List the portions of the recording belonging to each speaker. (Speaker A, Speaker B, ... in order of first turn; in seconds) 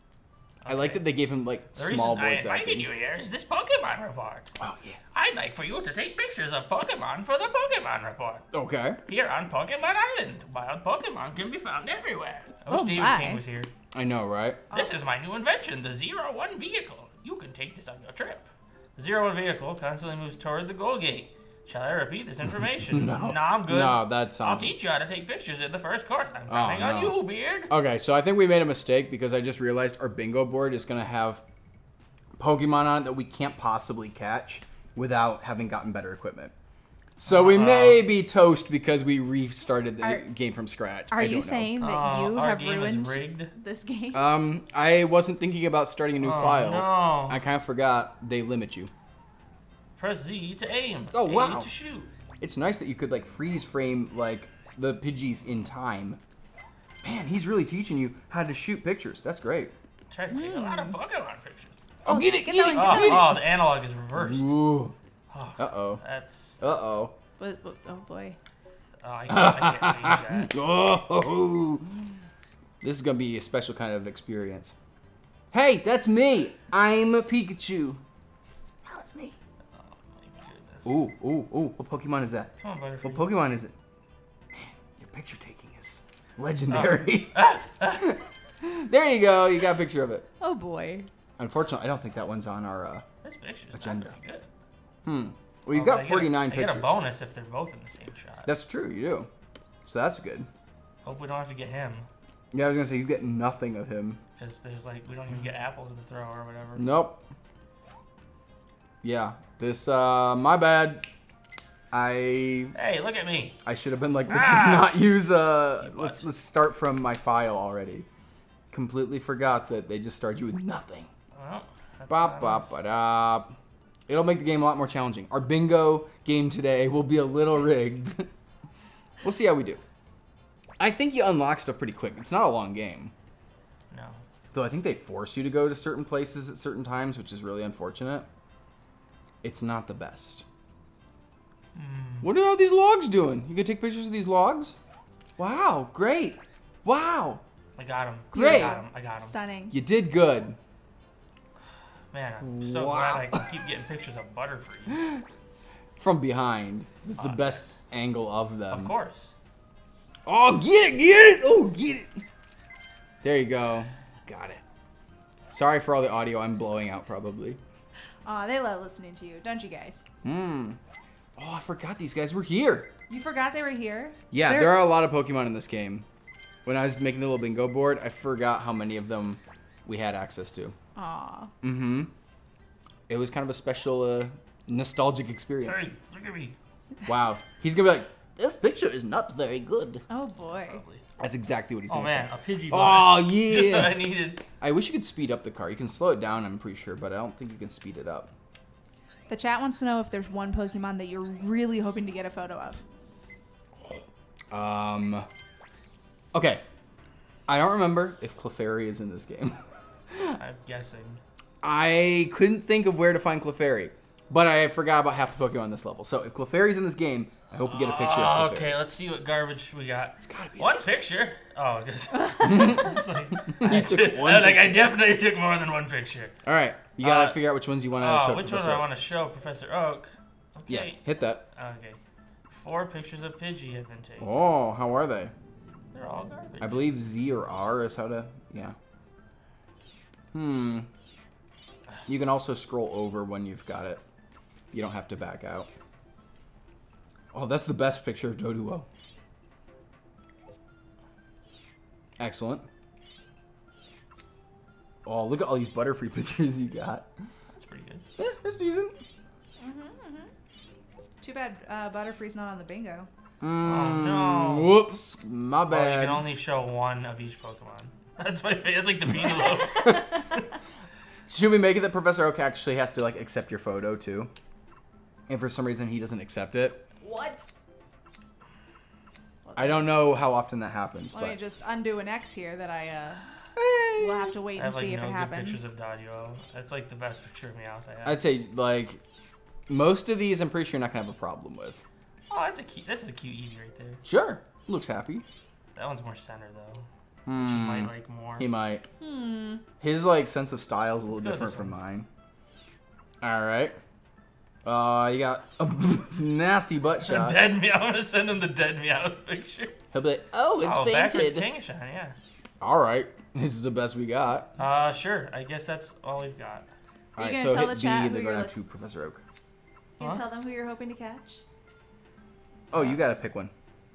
Speaker A: 0.6-1.0, 1.7-4.5, 5.2-8.4, 9.1-13.7, 14.7-27.7, 37.3-38.0, 41.8-43.5, 46.2-47.4, 50.0-52.1, 60.1-61.8, 62.7-64.6, 65.3-66.8, 69.0-70.5, 79.8-81.0, 82.6-83.3, 86.7-88.2, 93.2-94.5, 95.7-98.5, 101.0-102.1, 104.4-106.8, 112.8-113.6, 114.3-115.0, 115.8-116.3, 121.3-122.8, 133.9-134.2, 141.8-142.3, 147.8-149.4, 152.1-155.1, 157.2-157.8, 158.7-159.3, 185.7-186.6, 190.7-191.1, 191.9-194.4, 210.4-211.2, 217.6-226.4, 227.0-227.4, 228.0-232.0, 232.5-234.3, 235.9-236.9, 257.5-258.1, 263.6-264.8, 265.7-270.5, 284.6-288.2, 292.3-294.0, 295.8-298.5, 301.1-301.8, 307.0-309.8, 310.6-312.2, 314.6-316.7, 322.7-323.0
Speaker B: 0.7-2.9, 4.6-5.0, 8.5-9.0, 13.9-14.6, 22.9-24.7, 26.5-27.2, 27.7-31.4, 32.4-36.5, 37.2-41.7, 44.1-48.9, 51.1-51.7, 52.4-56.2, 57.0-59.7, 62.0-63.4, 64.2-65.0, 65.6-66.0, 66.6-67.1, 69.3-72.1, 72.8-74.7, 75.5-78.0, 78.8-79.4, 80.8-82.5, 83.0-83.7, 84.5-90.3, 91.4-93.0, 93.7-94.2, 95.0-97.0, 98.5-99.3, 99.8-100.5, 102.5-104.2, 106.8-107.2, 109.0-111.1, 111.9-112.8, 113.6-118.1, 118.7-121.1, 122.1-123.5, 124.1-128.3, 129.2-129.8, 130.8-133.1, 134.5-138.3, 139.4-140.4, 142.2-144.8, 145.4-147.4, 148.3-148.8, 149.7-150.6, 152.4-153.5, 154.9-155.2, 156.0-158.9, 160.3-162.2, 163.2-164.6, 165.5-167.6, 170.2-170.8, 171.4-172.9, 174.3-176.1, 176.7-180.8, 181.6-182.1, 183.1-185.9, 187.1-190.0, 191.2-194.0, 194.6-198.3, 203.8-205.3, 206.3-206.6, 207.5-209.6, 210.1-210.4, 211.6-218.8, 220.2-220.9, 222.4-224.8, 226.4-228.9, 230.7-231.4, 234.2-235.3, 236.6-238.8, 240.3-240.9, 242.1-244.0, 244.7-245.7, 247.3-248.9, 252.2-252.7, 255.1-257.1, 258.2-259.0, 263.4-266.2, 271.3-274.3, 275.3-276.9, 279.6-281.4, 283.6-284.4, 288.1-289.0, 289.7-291.8, 294.1-295.2, 297.3-298.9, 299.8-302.1, 303.2-303.8, 304.6-307.4, 309.9-311.5, 312.6-314.5, 317.2-319.2, 322.7-323.5
Speaker C: 12.7-13.4, 41.1-44.3, 60.3-61.0, 62.1-63.4, 67.4-68.4, 90.4-91.1, 148.3-149.7, 168.2-170.0, 173.1-174.8, 180.9-181.5, 190.1-190.8, 199.3-202.8, 259.6-260.3, 261.2-263.1, 277.0-277.5, 279.4-279.9, 281.1-283.2, 284.0-285.6, 299.0-299.6, 317.2-318.5, 320.0-321.4